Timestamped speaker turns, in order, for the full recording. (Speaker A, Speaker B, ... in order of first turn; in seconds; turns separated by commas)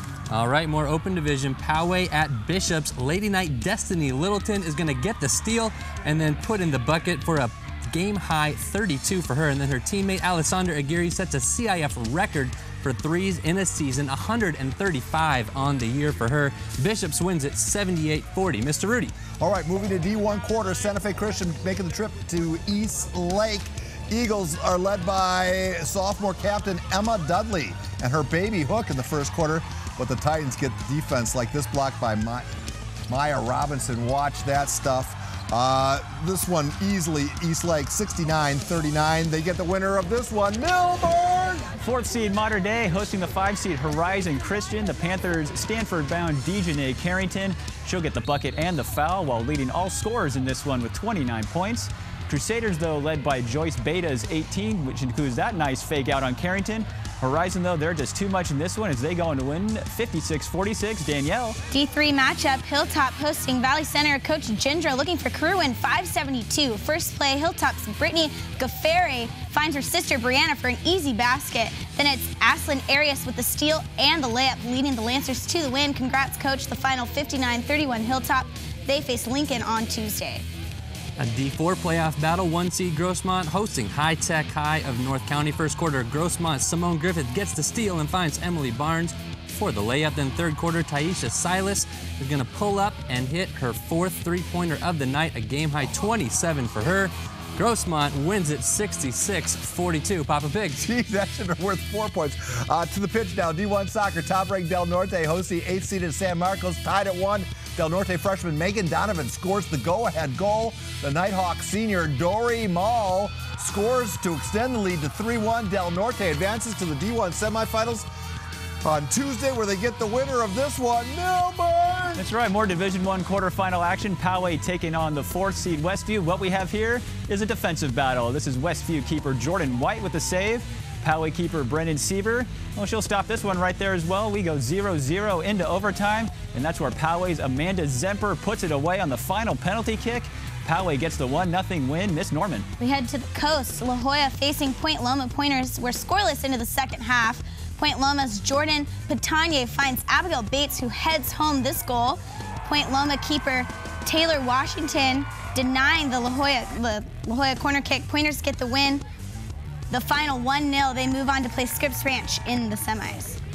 Speaker A: 0.3-19.1, Speaker B: 19.4-32.5, Speaker B: 33.1-41.6, Speaker C: 41.8-61.6, Speaker D: 61.7-80.4, Speaker A: 81.2-100.8, Speaker B: 100.8-118.1, Speaker B: 118.8-122.2, Speaker C: 122.2-142.7, Speaker D: 142.8-159.0, Speaker D: 159.9-163.4